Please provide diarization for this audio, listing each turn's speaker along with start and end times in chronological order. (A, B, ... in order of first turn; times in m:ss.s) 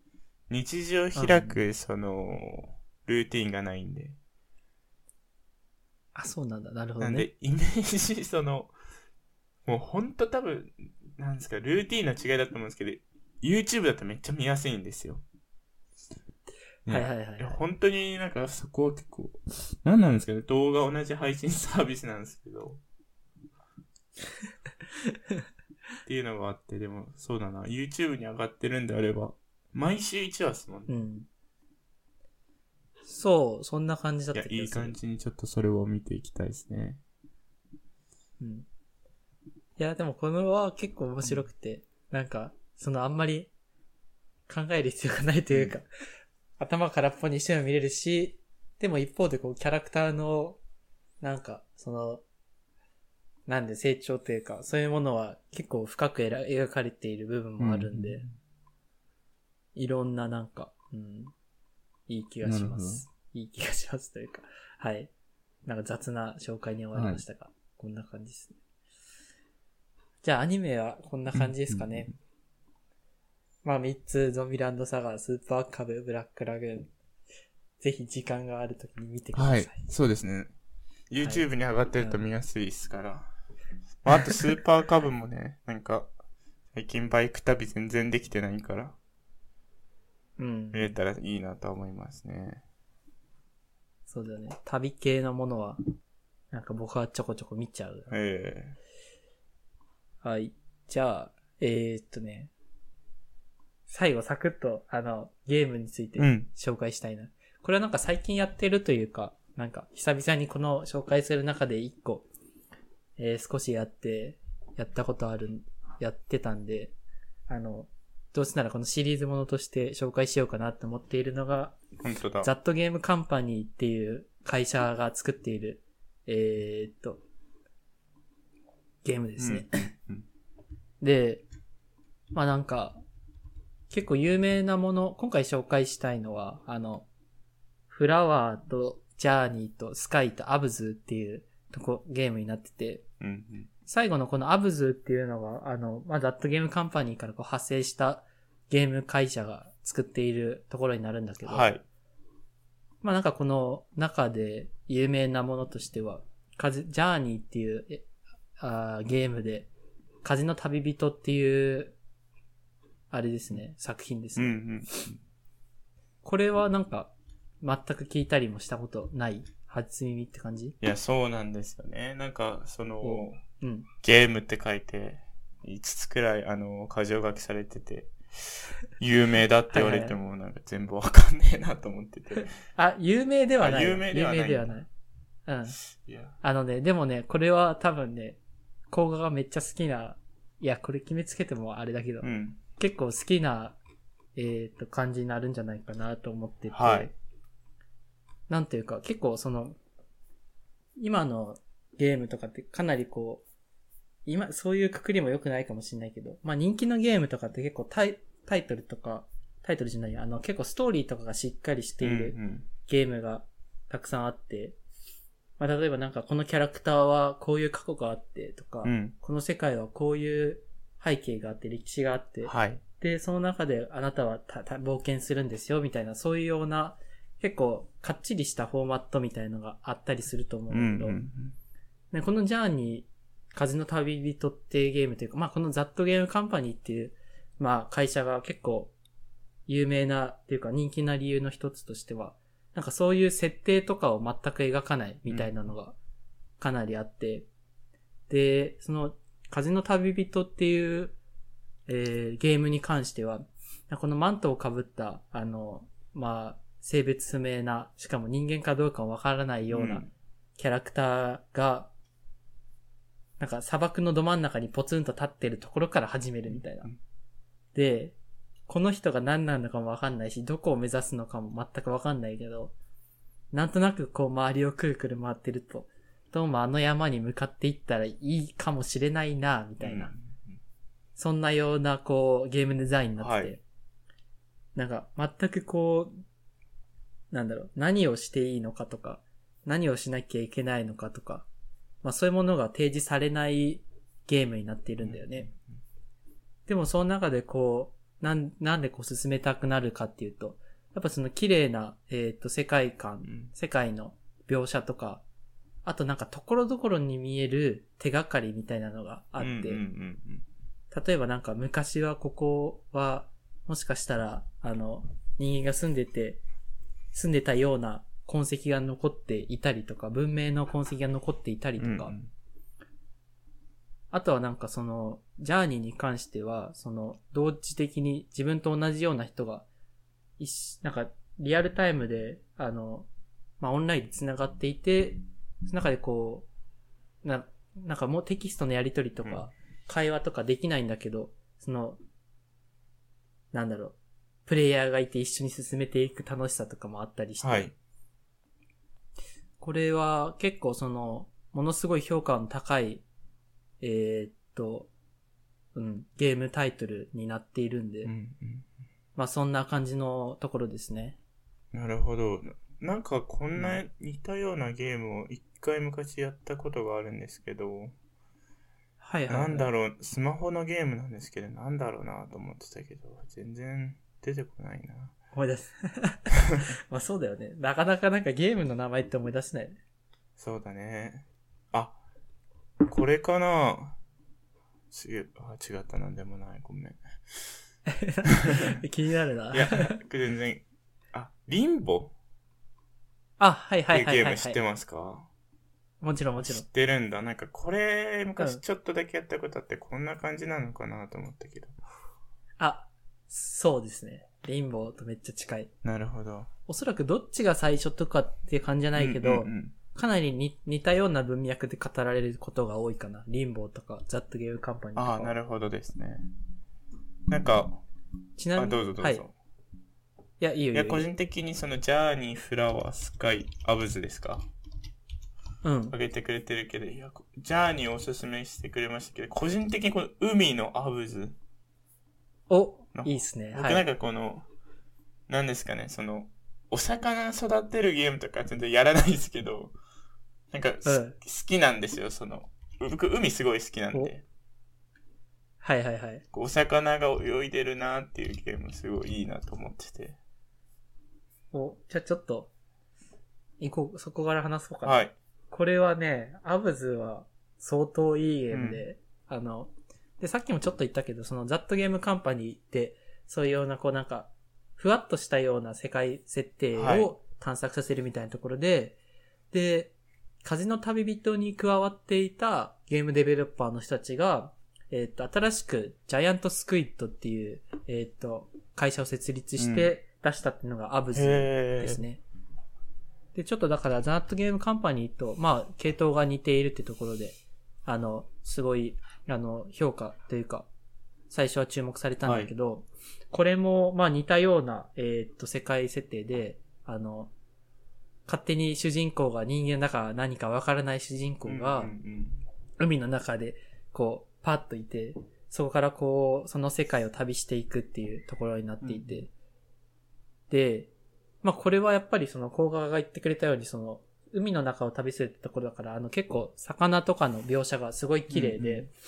0:00.5-0:04.2 A
0:01.2-0:01.6 B
0:06.1-0:07.3 B
0:07.0-0:08.7 A
0:09.6-0:15.2 A
0:16.8-0:22.8 A
0:16.9-0:17.6 B
0:25.1-0:25.4 B
0:26.0-0:30.9 A
0:30.9-0:31.3 B
0:33.0-0:35.0 B
0:34.3-0:37.0 A
0:38.4-0:38.6 B
0:39.8-0:43.5 B
0:44.5-0:45.9 B
0:45.5-0:45.8 A
0:46.6-0:50.6 B
0:51.2-0:52.2 B
0:53.5-0:58.2 B
0:57.6-0:58.3 A
0:59.7-1:01.3 B
1:02.1-1:05.1 B
1:02.4-1:03.1 A
1:05.6-1:08.6 B
1:06.9-1:07.2 A
1:10.2-1:12.1 B
1:11.3-1:12.2 A
1:13.6-1:16.9 B
1:17.8-1:19.8 B
1:19.3-1:20.5 A
1:21.1-1:23.3 A
1:21.2-1:21.5 B
1:24.0-1:26.1 A
1:26.7-1:29.0 A
1:30.4-1:30.9 B
1:30.7-1:32.6 A
1:34.1-1:35.8 B
1:36.5-1:38.1 B
1:38.1-1:38.8 A
1:40.2-1:42.5 B
1:43.9-1:52.3 B
1:46.2-1:46.5 A
1:53.2-1:56.9 B
1:57.5-2:01.8 B
2:02.0-2:02.5 A
2:02.4-2:07.2 B
2:09.0-2:09.7 B
2:09.4-2:10.2 A
2:11.0-2:11.4 B
2:12.3-2:13.0 B
2:13.9-2:17.1 B
2:17.9-2:23.0 B
2:23.2-2:23.7 A
2:23.9-2:31.7 B
2:31.4-2:31.8 A
2:33.0-2:38.0 B
2:38.6-2:39.7 B
2:40.2-2:42.0 B
2:43.1-2:44.6 B
2:44.4-2:45.2 A
2:46.2-2:50.8 B
2:50.8-2:53.4 A
2:53.0-2:53.9 B
2:54.0-3:02.5 A
2:59.7-3:00.2 B
3:02.8-3:04.9 B
3:03.6-3:04.8 A
3:05.4-3:05.8 B
3:05.8-3:06.4 A
3:06.4-3:08.4 B
3:08.9-3:13.8 B
3:12.2-3:12.6 A
3:14.4-3:17.1 B
3:16.7-3:17.1 A
3:18.5-3:19.8 B
3:21.0-3:23.4 B
3:24.2-3:34.8 B
3:32.0-3:32.7 A
3:35.6-3:51.2 B
3:38.8-3:39.1 A
3:42.4-3:42.8 A
3:50.7-3:51.6 A
3:52.1-3:58.9 B
3:59.7-4:06.0 B
4:05.3-4:05.7 A
4:06.6-4:07.5 B
4:08.3-4:11.2 B
4:11.9-4:21.9 B
4:19.7-4:20.1 A
4:23.4-4:26.9 B
4:26.5-4:27.0 A
4:27.7-4:28.1 B
4:28.7-4:32.7 B
4:33.5-4:40.1 B
4:39.8-4:40.6 A
4:41.2-4:43.6 B
4:43.2-4:43.5 A
4:44.7-4:46.1 B
4:47.3-4:51.4 B
4:52.0-4:55.5 B
4:55.0-4:55.8 A
4:56.7-5:05.2 B
5:03.2-5:03.5 A
5:05.8-5:09.8 B
5:09.4-5:10.4 A
5:10.9-5:16.4 B
5:17.1-5:22.1 B
5:21.8-5:22.3 A
5:24.1-5:29.6 B
5:30.4-5:33.1 B
5:33.6-5:36.5 B
5:37.2-5:42.0 B
5:39.2-5:39.5 A
5:43.5-5:47.7 B
5:47.4-5:47.7 A
5:49.6-5:53.0 B
5:53.8-5:54.9 B
5:55.7-5:58.1 B
5:58.0-5:58.6 A
5:59.2-6:01.2 B
6:01.7-6:07.9 A
6:03.5-6:03.8 B
6:09.0-6:09.7 B
6:09.3-6:15.2 A
6:15.3-6:16.3 B
6:16.9-6:19.8 B
6:20.4-6:22.0 A
6:22.9-6:24.0 A
6:24.9-6:27.0 A
6:27.9-6:29.9 B
6:28.4-6:28.7 A
6:29.5-6:32.1 A
6:33.4-6:34.6 B
6:33.9-6:35.3 A
6:36.0-6:36.6 B
6:36.4-6:41.8 A
6:42.6-6:45.7 B
6:45.8-6:46.5 A
6:46.7-6:55.3 B
6:49.0-6:49.7 A
6:55.0-6:56.3 A
6:57.3-6:57.8 A
6:58.4-6:59.2 B
6:58.6-6:59.3 A
7:00.4-7:01.1 B
7:00.7-7:04.4 A
7:05.6-7:05.9 B
7:05.9-7:11.4 A
7:12.5-7:13.8 B
7:12.9-7:14.4 A
7:15.3-7:19.7 A
7:20.5-7:24.2 A
7:20.8-7:21.2 B
7:25.6-7:26.2 B
7:26.3-7:30.2 A
7:31.5-7:32.5 B
7:33.6-7:35.0 B
7:34.8-7:35.1 A
7:35.5-7:49.0 B
7:38.5-7:38.8 A
7:46.7-7:47.1 A
7:49.5-8:02.2 B
7:59.6-7:59.9 A
8:01.1-8:02.0 A
8:03.3-8:10.7 B
8:11.3-8:17.3 B
8:12.2-8:12.5 A
8:18.3-8:21.9 B
8:21.4-8:22.4 A
8:22.8-8:29.3 B
8:28.8-8:29.2 A
8:30.5-8:30.9 B
8:31.4-8:38.9 B
8:38.3-8:38.9 A